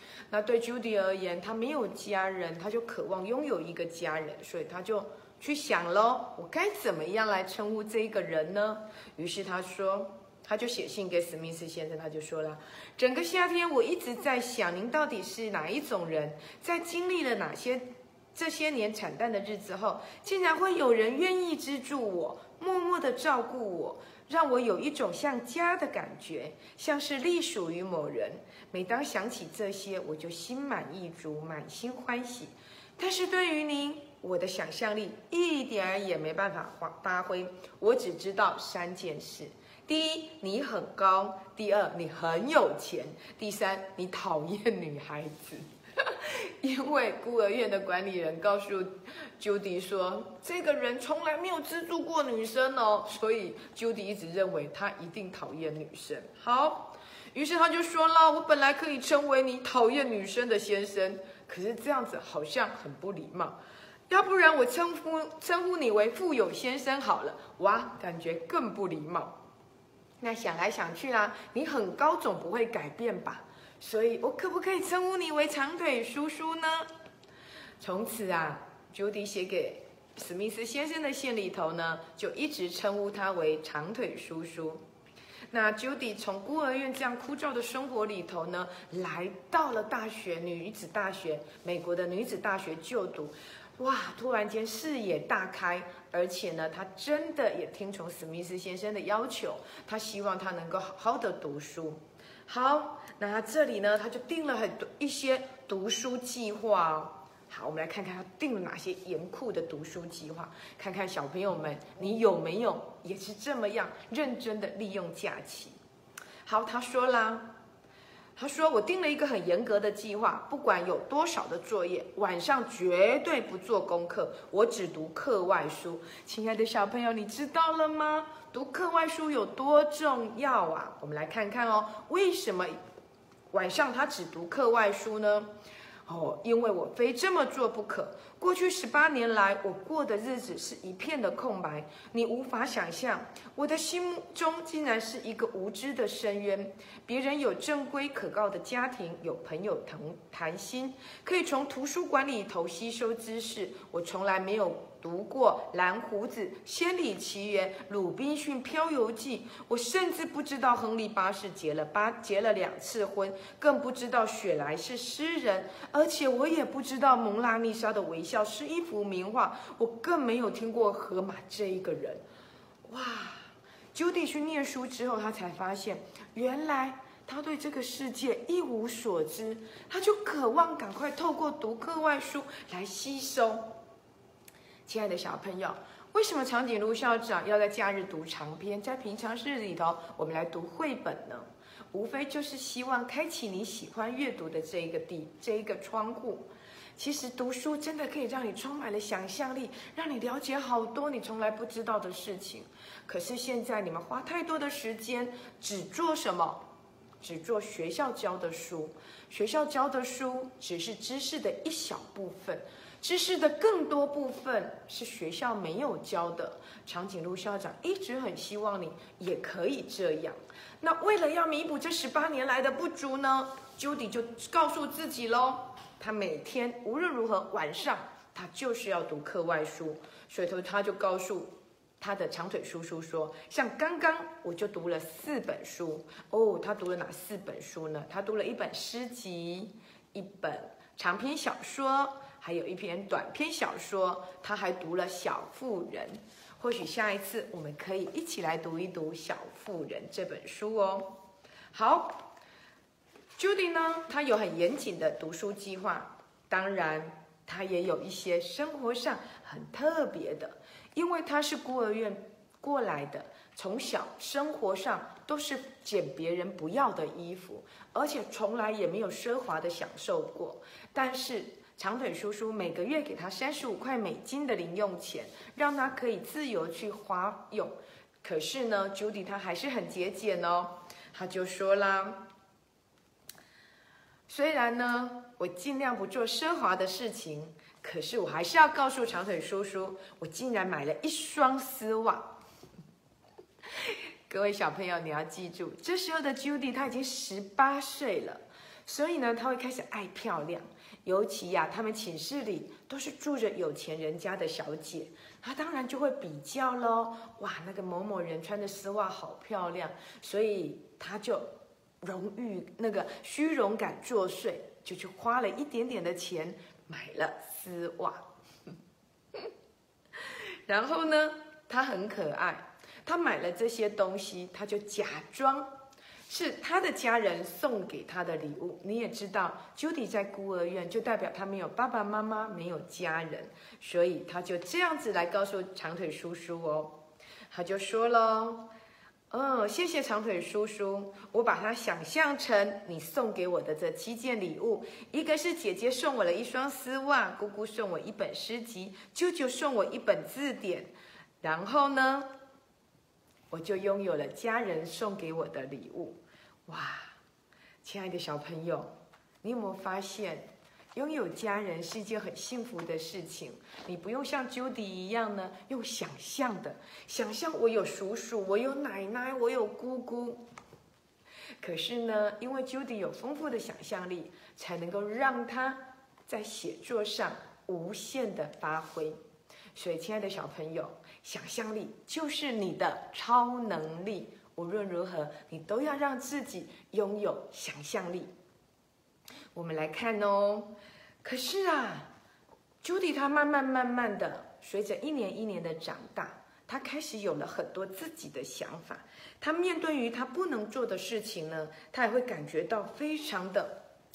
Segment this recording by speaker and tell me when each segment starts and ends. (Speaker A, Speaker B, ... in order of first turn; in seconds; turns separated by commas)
Speaker A: 0.3-63.6, Speaker A: 64.1-69.4, Speaker A: 70.2-76.9, Speaker A: 77.8-84.8, Speaker A: 85.5-115.8, Speaker A: 116.4-117.5, Speaker A: 118.3-132.8, Speaker A: 133.5-135.5, Speaker A: 136.1-172.2, Speaker A: 172.8-183.8, Speaker A: 184.8-206.7, Speaker A: 207.2-251.2, Speaker A: 251.7-252.3, Speaker A: 253.4-282.3, Speaker A: 284.3-292.4, Speaker A: 293.8-311.5, Speaker A: 312.0-318.2, Speaker A: 320.7-325.7, Speaker A: 326.3-337.0, Speaker A: 337.5-338.7, Speaker A: 339.3-352.3, Speaker A: 353.5-357.1, Speaker A: 357.8-370.4, Speaker A: 371.6-379.2, Speaker A: 379.7-388.3, Speaker A: 389.5-392.1, Speaker A: 392.8-403.8